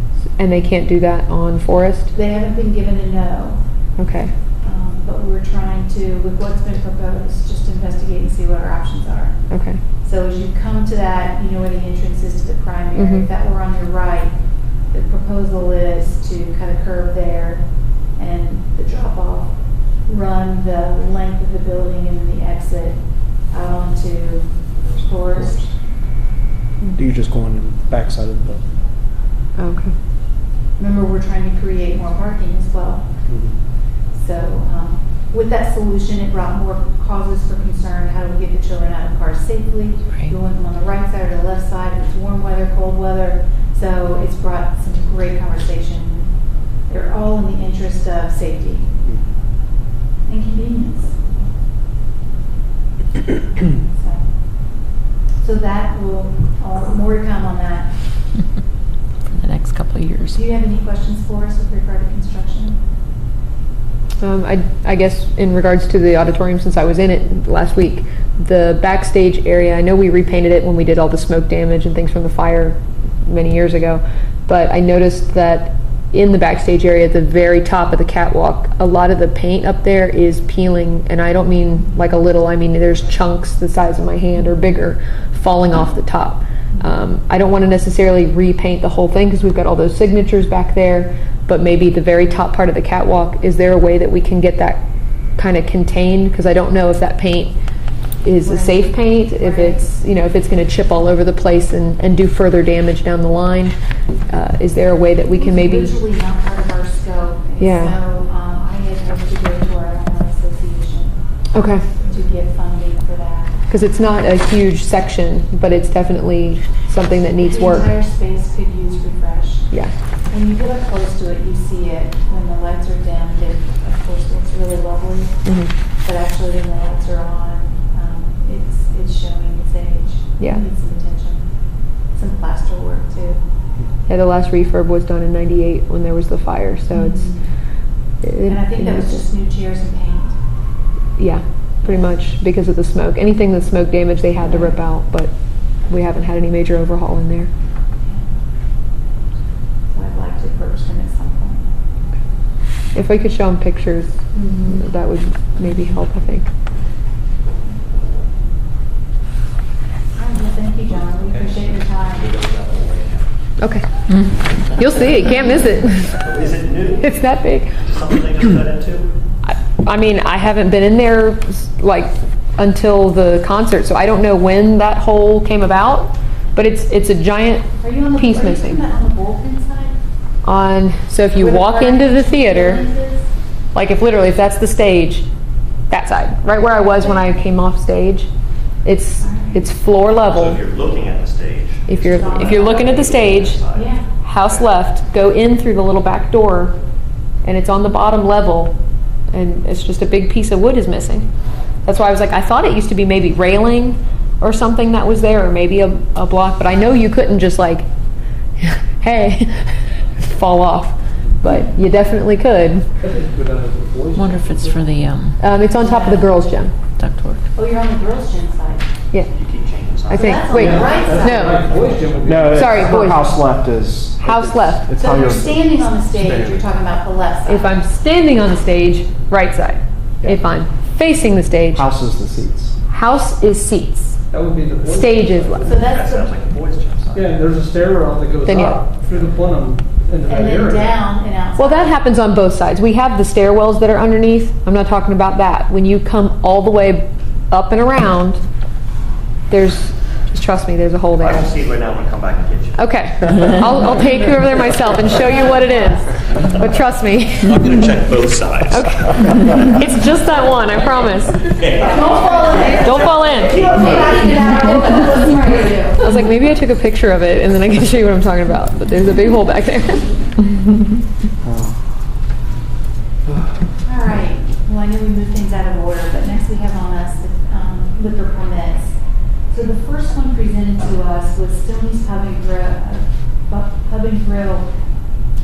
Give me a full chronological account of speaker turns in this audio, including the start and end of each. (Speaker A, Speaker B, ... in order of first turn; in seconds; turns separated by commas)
Speaker A: 0.4-2.1, Speaker B: 2.1-3.6, Speaker A: 4.0-4.3, Speaker B: 4.6-9.4, Speaker A: 9.5-9.8, Speaker B: 10.0-14.3, Speaker A: 13.0-13.3, Speaker B: 14.9-17.6, Speaker B: 18.2-19.5, Speaker B: 20.1-23.0, Speaker B: 23.5-25.7, Speaker C: 27.0-28.6, Speaker A: 29.6-29.9, Speaker B: 30.8-33.1, Speaker B: 34.1-46.3, Speaker B: 46.9-48.9, Speaker B: 50.3-51.4, Speaker B: 53.6-54.2, Speaker B: 55.4-57.9, Speaker D: 59.3-60.4, Speaker B: 60.4-62.8, Speaker A: 64.2-94.8, Speaker A: 95.4-97.5, Speaker A: 98.2-103.8, Speaker B: 98.4-99.9, Speaker A: 104.3-106.0, Speaker B: 105.3-111.2, Speaker A: 107.6-108.0, Speaker A: 111.5-111.8, Speaker B: 112.0-113.6, Speaker A: 113.7-117.9, Speaker B: 117.4-119.7, Speaker B: 120.3-125.4, Speaker A: 125.5-125.7, Speaker B: 126.0-131.5, Speaker B: 132.2-133.4, Speaker A: 134.1-137.3, Speaker B: 136.9-137.4, Speaker A: 138.2-139.2, Speaker B: 138.5-140.4, Speaker A: 141.2-145.3, Speaker A: 145.9-147.5, Speaker B: 148.0-148.3, Speaker B: 149.9-151.7, Speaker A: 152.9-156.5, Speaker B: 154.3-154.9, Speaker B: 160.2-162.4, Speaker E: 161.2-163.2, Speaker A: 163.6-163.8, Speaker A: 164.6-166.2, Speaker E: 166.1-167.2, Speaker A: 167.0-167.7, Speaker E: 167.8-169.1, Speaker A: 169.5-178.8, Speaker B: 177.8-180.0, Speaker A: 180.4-182.8, Speaker B: 181.4-183.3, Speaker A: 183.7-185.3, Speaker A: 185.9-188.3, Speaker A: 188.8-190.6, Speaker B: 189.2-189.7, Speaker E: 190.3-194.6, Speaker A: 191.9-193.6, Speaker B: 192.0-193.0, Speaker B: 193.7-194.1, Speaker A: 194.2-196.8, Speaker A: 197.4-198.8, Speaker A: 199.3-201.3, Speaker A: 201.8-207.9, Speaker A: 208.6-212.9, Speaker F: 213.0-214.9, Speaker D: 214.2-215.4, Speaker A: 215.4-216.7, Speaker B: 215.8-216.3, Speaker D: 217.0-217.4, Speaker B: 217.6-218.9, Speaker E: 219.3-221.3, Speaker A: 220.1-221.6, Speaker B: 220.1-221.9, Speaker F: 220.5-223.1, Speaker C: 222.2-225.7, Speaker A: 222.5-223.4, Speaker A: 224.2-224.9, Speaker B: 224.9-227.8, Speaker E: 226.1-226.6, Speaker A: 227.5-232.0, Speaker C: 231.7-232.8, Speaker A: 232.9-234.2, Speaker F: 234.3-235.9, Speaker A: 234.9-235.7, Speaker B: 235.6-236.4, Speaker E: 235.7-237.3, Speaker F: 237.1-241.0, Speaker A: 238.4-238.8, Speaker B: 240.2-241.9, Speaker A: 241.6-248.4, Speaker A: 249.5-251.5, Speaker E: 251.2-252.8, Speaker A: 252.8-257.8, Speaker B: 255.1-256.0, Speaker E: 257.4-259.3, Speaker A: 258.7-261.6, Speaker E: 261.5-264.7, Speaker B: 261.6-266.1, Speaker A: 262.7-263.7, Speaker A: 266.0-270.6, Speaker C: 271.4-271.8, Speaker B: 273.9-278.9, Speaker B: 279.5-284.7